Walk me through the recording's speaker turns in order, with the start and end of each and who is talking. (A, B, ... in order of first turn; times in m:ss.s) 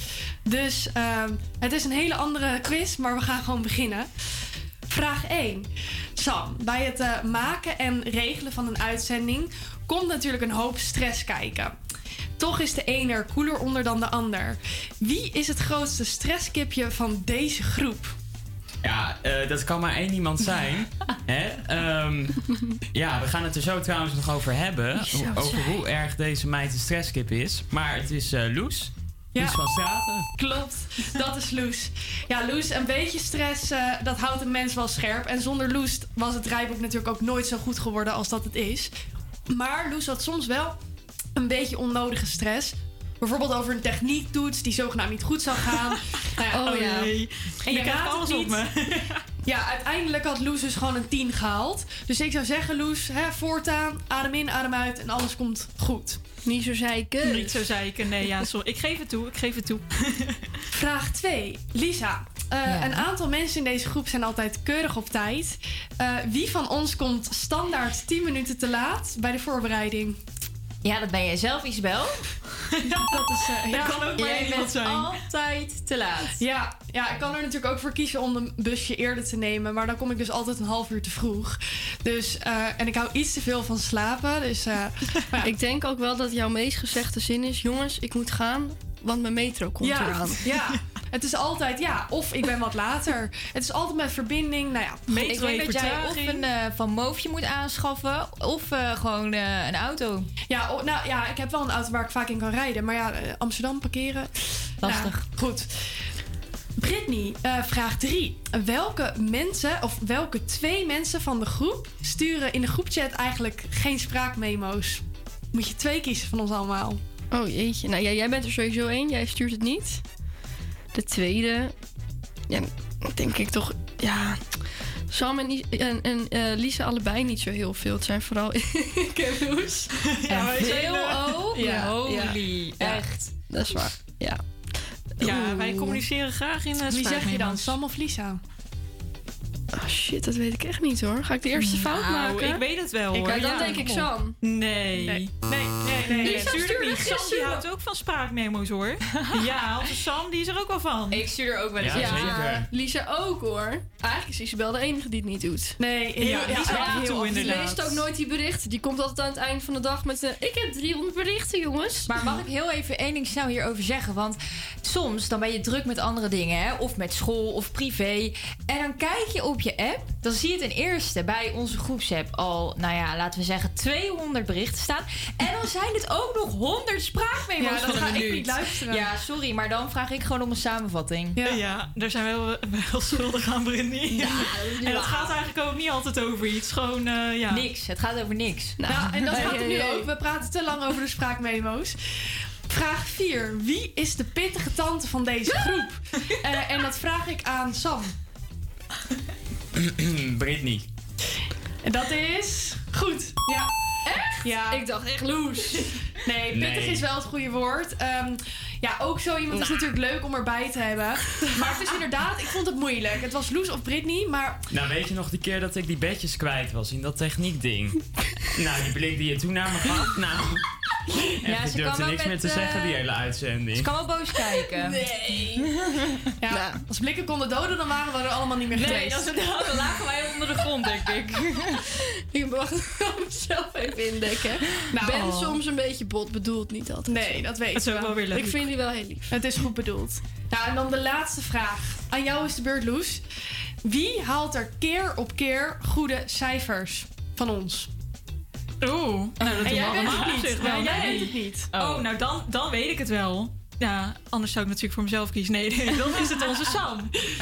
0:00.4-0:04.1 A
0:04.9-0:11.8 A
0:12.4-0:18.1 A
0:18.8-0:22.4 B
0:22.9-0:30.2 B
0:25.0-0:25.8 C
0:29.3-0:29.6 A
0:30.4-0:38.9 A
0:39.5-0:40.8 A
0:41.4-0:47.0 A
0:46.5-0:49.2 D
0:46.5-0:47.0 C
0:47.6-0:48.6 A
0:49.4-0:56.2 A
0:56.4-0:57.6 C
0:57.2-1:00.4 D
1:00.7-1:10.2 A
1:02.6-1:03.1 E
1:10.8-1:12.2 E
1:12.8-1:15.1 D
1:13.1-1:14.4 A
1:13.8-1:16.4 E
1:16.4-1:25.5 A
1:25.4-1:30.4 C
1:29.8-1:35.3 A
1:35.1-1:36.4 D
1:35.3-1:40.3 E
1:40.5-1:45.7 A
1:44.8-1:45.2 E
1:46.8-1:57.0 A
1:57.3-2:00.0 C
2:00.9-2:01.7 C
2:02.5-2:04.6 C
2:05.1-2:10.9 C
2:10.2-2:11.4 D
2:10.5-2:13.3 E
2:11.5-2:14.4 C
2:15.2-2:16.0 C
2:15.2-2:17.8 D
2:16.8-2:18.4 A
2:19.7-2:22.6 C
2:21.6-2:25.3 D
2:23.1-2:24.4 C
2:25.1-2:26.8 A
2:25.9-2:31.2 D
2:26.2-2:27.6 C
2:31.1-2:32.6 E
2:31.8-2:32.7 B
2:31.9-2:35.8 C
2:35.8-2:37.7 A
2:36.2-2:38.0 D
2:36.4-2:42.3 C
2:42.1-3:01.4 E
2:57.6-2:59.1 A
3:01.4-3:07.6 D
3:04.2-3:05.3 C
3:07.5-3:08.8 E
3:08.8-3:10.1 C
3:08.8-3:12.0 A
3:12.7-3:18.1 A
3:19.8-3:20.9 B
3:21.8-3:23.7 A
3:24.3-3:25.7 C
3:24.4-3:24.9 A
3:25.6-3:34.6 A
3:26.5-3:27.0 B
3:29.5-3:29.8 C
3:34.7-3:38.0 B
3:38.6-3:40.6 B
3:41.4-3:43.9 B
3:41.4-3:43.0 E
3:43.8-3:45.0 E
3:44.7-3:45.6 C
3:46.4-3:49.3 A
3:46.5-3:46.8 C
3:48.7-3:51.8 E
3:52.3-3:57.5 C
3:54.9-3:55.6 A
3:57.1-3:58.3 A
3:57.7-3:58.6 D
3:58.3-3:59.4 C
3:59.3-4:03.2 A
4:03.8-4:07.9 A
4:08.8-4:17.1 D
4:09.4-4:11.2 E
4:09.5-4:11.7 A
4:11.7-4:12.1 E